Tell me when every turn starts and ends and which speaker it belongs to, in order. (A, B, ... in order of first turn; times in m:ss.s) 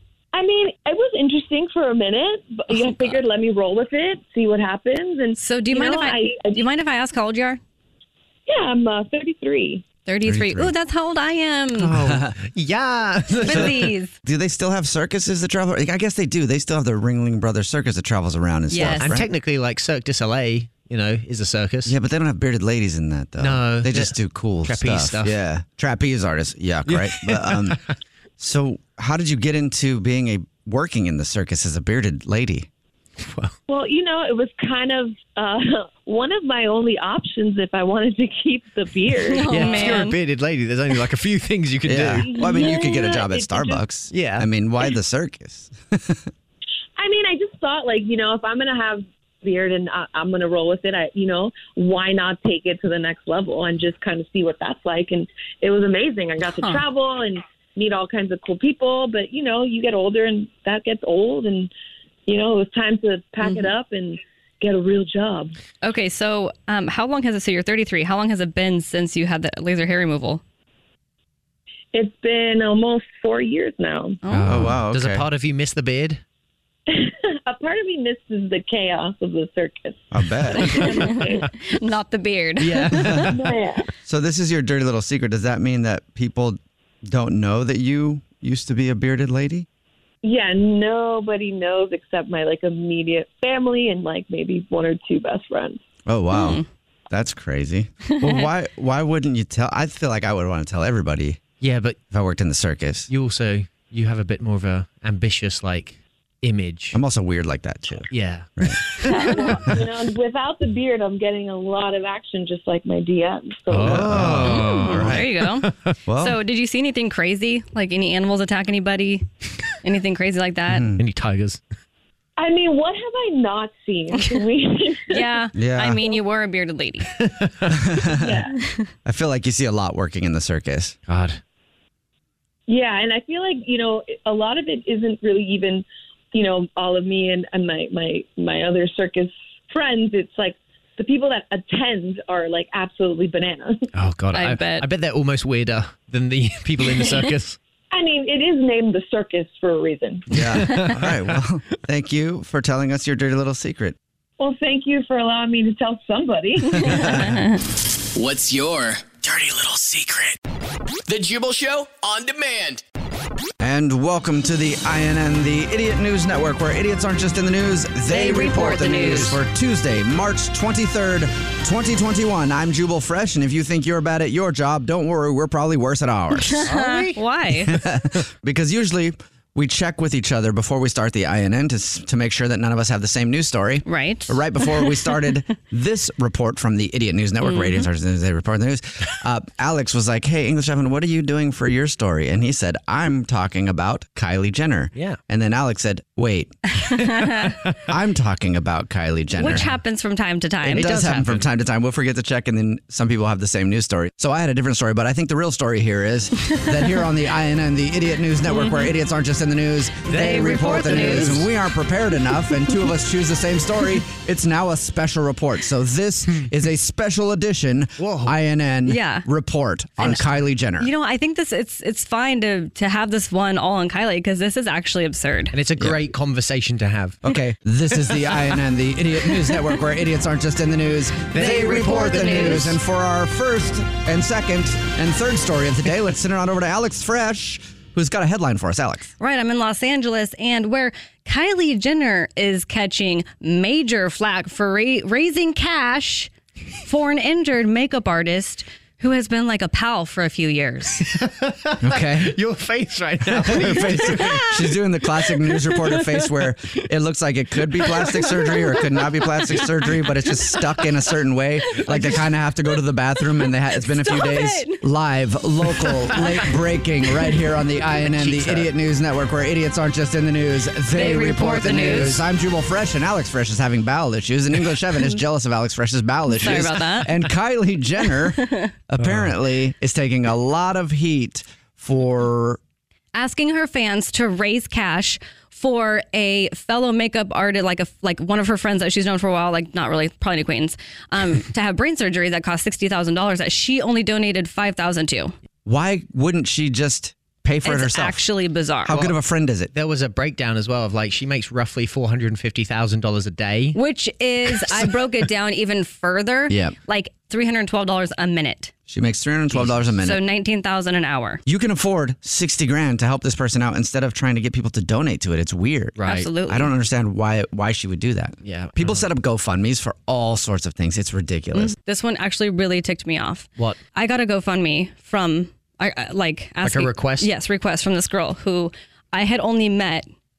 0:00.3-0:06.6 A
0:02.7-0:03.2 B
0:05.4-0:07.6 B
0:08.5-0:09.8 A
0:10.0-0:12.0 B
0:10.2-0:10.7 C
0:11.8-0:13.9 D
0:11.9-0:12.4 C
0:13.4-0:14.1 B
0:13.4-0:19.3 C
0:18.7-0:19.2 B
0:18.8-0:21.9 D
0:21.8-0:27.8 C
0:23.4-0:25.4 D
0:26.9-0:27.8 D
0:28.4-0:32.7 C
0:33.2-0:33.5 D
0:33.7-0:40.0 A
0:39.2-0:40.2 B
0:39.5-0:42.3 D
0:41.8-0:46.3 C
0:42.2-0:43.8 A
0:44.1-0:44.5 D
0:47.0-1:01.7 A
0:56.5-0:56.8 B
1:02.2-1:05.5 A
1:03.4-1:03.7 B
1:05.8-1:10.4 B
1:11.9-1:14.2 A
1:14.2-1:14.7 B
1:14.3-1:16.2 D
1:14.4-1:15.2 C
1:16.9-1:21.5 A
1:20.1-1:21.1 C
1:20.5-1:23.3 B
1:22.6-1:23.3 D
1:22.9-1:23.3 C
1:23.3-1:23.9 A
1:24.0-1:29.6 C
1:30.2-1:35.8 A
1:36.1-1:41.4 C
1:36.3-1:36.6 B
1:38.1-1:38.5 B
1:41.6-1:42.0 D
1:42.1-1:43.1 C
1:43.1-1:47.0 D
1:46.9-1:48.8 C
1:48.1-1:48.5 D
1:49.1-1:53.9 A
1:53.7-1:55.9 D
1:53.8-1:55.3 C
1:54.2-1:59.2 B
1:56.0-1:56.4 C
1:59.8-2:00.9 B
2:00.7-2:01.0 C
2:01.0-2:01.6 D
2:02.4-2:05.3 A
2:04.2-2:04.4 B
2:05.1-2:07.1 B
2:05.5-2:06.0 C
2:07.2-2:07.8 D
2:07.7-2:08.4 C
2:08.2-2:08.5 A
2:08.5-2:08.9 B
2:09.0-2:11.0 C
2:11.1-2:11.4 D
2:12.7-2:23.9 A
2:23.9-2:27.6 D
2:24.3-2:24.9 B
2:27.9-2:30.3 A
2:30.3-2:34.0 C
2:30.3-2:31.2 D
2:34.4-2:37.2 A
2:36.8-2:37.3 C
2:36.8-2:37.6 B
2:38.1-2:40.4 E
2:41.1-2:42.8 E
2:43.6-2:56.7 C
2:48.1-2:49.4 B
2:56.4-2:57.7 B
2:56.6-2:57.2 D
2:57.6-3:16.5 C
3:03.8-3:05.4 B
3:07.4-3:07.9 B
3:16.9-3:17.6 B
3:17.9-3:19.7 C
3:19.4-3:21.0 B
3:20.6-3:40.9 C
3:20.7-3:21.4 D
3:26.5-3:26.9 B
3:28.5-3:28.9 B
3:30.1-3:31.4 D
3:30.1-3:31.4 B
3:38.0-3:38.3 D
3:38.8-3:39.3 B
3:40.8-3:45.6 B
3:45.5-3:47.2 D
3:45.8-3:46.1 C
3:47.2-3:59.1 C
3:51.3-3:52.7 D
3:51.4-3:52.8 B
3:59.2-4:06.3 B
4:06.8-4:11.0 B
4:11.2-4:14.4 D
4:11.8-4:12.4 C
4:13.2-4:42.6 C
4:14.0-4:14.5 B
4:18.2-4:18.6 B
4:21.9-4:22.2 B
4:22.7-4:24.8 B
4:28.0-4:28.7 D
4:30.9-4:32.2 B
4:36.3-4:37.2 B
4:38.1-4:38.7 B
4:39.0-4:39.3 D
4:43.1-4:55.3 B
4:55.6-4:58.2 C
4:57.6-4:59.0 B
4:58.8-4:59.7 C
4:59.7-5:03.8 D
5:03.7-5:08.7 B
5:06.5-5:06.7 C
5:08.9-5:10.2 C
5:09.5-5:09.8 D
5:10.0-5:11.4 B
5:11.4-5:21.8 C
5:16.0-5:16.3 D
5:16.0-5:16.7 B
5:18.4-5:19.0 D
5:21.5-5:30.1 B
5:26.6-5:27.3 D